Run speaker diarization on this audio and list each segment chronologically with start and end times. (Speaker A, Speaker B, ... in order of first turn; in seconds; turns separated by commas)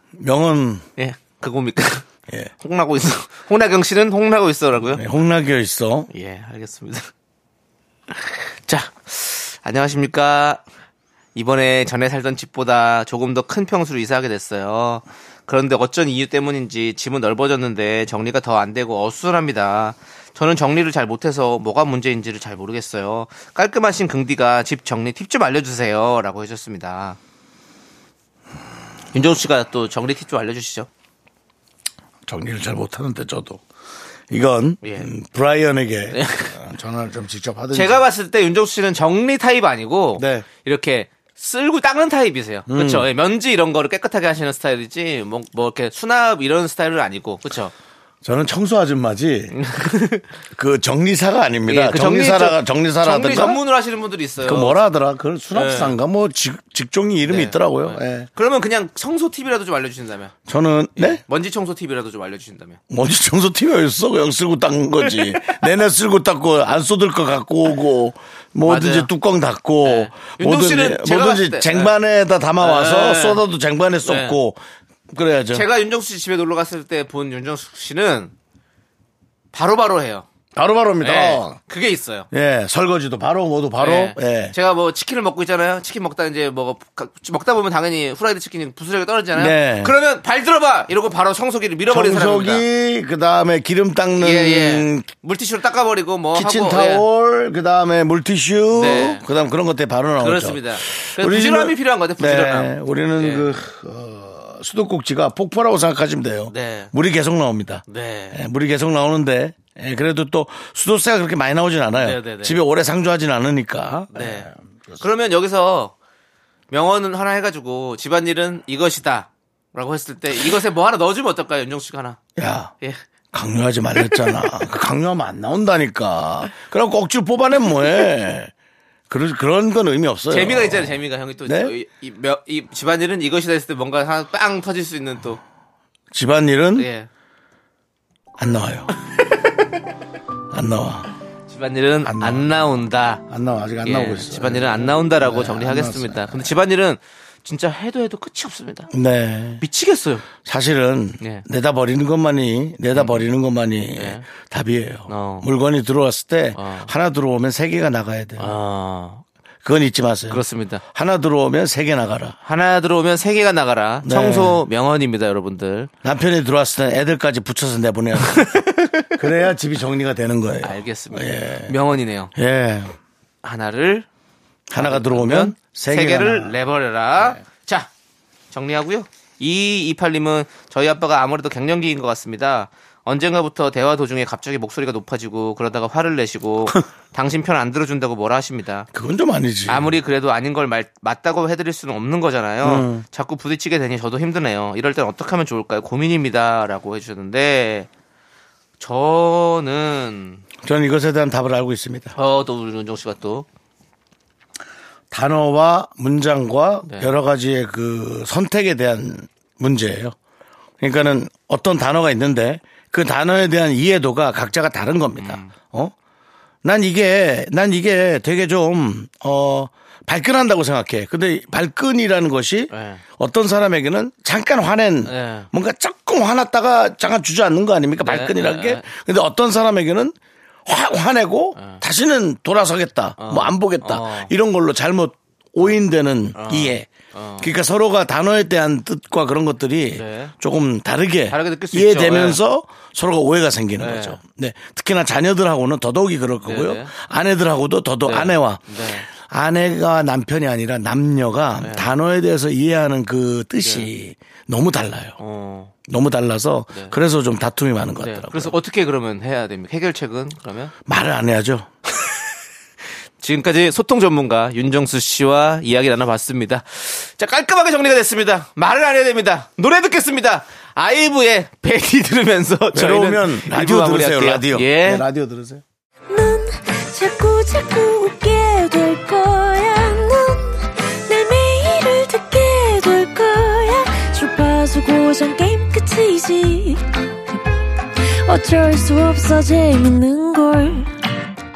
Speaker A: 0.2-0.9, Speaker B: 1.0-2.1, Speaker B: 2.6-5.0, Speaker A: 4.9-6.1, Speaker B: 6.1-7.1, Speaker B: 8.1-10.6, Speaker B: 11.3-27.2, Speaker B: 29.1-30.9, Speaker A: 32.3-33.6, Speaker A: 34.3-38.0, Speaker B: 34.8-35.1, Speaker B: 36.1-36.6, Speaker B: 37.7-47.7, Speaker A: 40.2-40.5, Speaker A: 42.7-43.1, Speaker A: 48.2-49.5, Speaker B: 49.5-50.3, Speaker A: 50.5-53.6, Speaker B: 51.7-54.8, Speaker A: 54.4-58.3, Speaker B: 55.5-56.0, Speaker B: 57.2-60.3, Speaker A: 60.5-61.2, Speaker B: 61.0-62.8, Speaker A: 62.9-75.7, Speaker B: 65.2-65.6, Speaker B: 68.6-69.1, Speaker B: 69.8-72.0, Speaker B: 72.6-73.4, Speaker B: 74.0-74.4, Speaker B: 75.5-78.3, Speaker B: 79.5-80.3, Speaker A: 80.5-81.6, Speaker B: 81.0-82.3, Speaker A: 82.3-84.5, Speaker B: 83.8-92.7, Speaker A: 89.3-89.9, Speaker A: 91.9-95.1, Speaker B: 94.2-97.1, Speaker A: 96.3-115.0, Speaker B: 98.7-99.2, Speaker B: 100.2-103.5, Speaker B: 106.5-106.9, Speaker B: 107.9-108.4, Speaker B: 112.0-112.6, Speaker B: 114.1-114.5, Speaker B: 115.0-115.9, Speaker B: 116.7-122.2, Speaker A: 122.4-122.7, Speaker A: 123.3-128.5, Speaker B: 124.0-124.5, Speaker A: 129.1-131.7, Speaker B: 130.3-135.4, Speaker A: 136.1-136.9, Speaker B: 136.8-137.1, Speaker A: 138.4-138.9, Speaker A: 140.5-141.1, Speaker B: 141.5-143.2, Speaker A: 142.0-142.5, Speaker A: 143.3-146.6, Speaker B: 143.8-148.9, Speaker A: 148.9-149.6, Speaker B: 149.6-150.3, Speaker A: 150.4-158.5, Speaker B: 152.9-153.3, Speaker B: 154.0-154.2, Speaker B: 155.1-155.5, Speaker B: 156.6-156.9, Speaker B: 158.4-159.2, Speaker A: 159.6-162.4, Speaker B: 160.3-160.8, Speaker B: 162.4-165.9, Speaker A: 164.0-164.6, Speaker A: 166.0-168.6, Speaker B: 168.3-169.1, Speaker A: 169.2-171.8, Speaker B: 170.6-172.3, Speaker A: 172.3-172.9, Speaker B: 173.4-174.1, Speaker A: 174.7-176.5, Speaker B: 174.8-177.9, Speaker B: 178.5-188.9, Speaker A: 188.9-189.9, Speaker B: 189.7-197.9, Speaker A: 192.6-193.0, Speaker B: 198.8-200.4, Speaker A: 200.6-202.2, Speaker B: 202.2-203.5, Speaker A: 205.1-210.2, Speaker B: 206.8-207.1, Speaker A: 210.8-215.9, Speaker B: 215.2-215.5, Speaker A: 216.6-230.2, Speaker B: 222.7-223.0, Speaker B: 225.1-225.5, Speaker B: 228.1-228.9, Speaker A: 230.7-236.9, Speaker B: 233.2-234.3, Speaker B: 236.3-237.5, Speaker A: 237.4-255.2, Speaker B: 239.9-240.3, Speaker B: 241.3-242.4, Speaker B: 243.8-244.2, Speaker B: 246.4-246.9, Speaker B: 248.1-249.1, Speaker B: 251.6-251.9, Speaker B: 253.6-253.9, Speaker B: 255.2-255.7, Speaker A: 255.9-258.6, Speaker B: 258.0-260.7, Speaker A: 260.9-261.7, Speaker B: 263.2-275.1, Speaker A: 272.7-275.6, Speaker C: 276.1-287.4, Speaker C: 288.2-290.9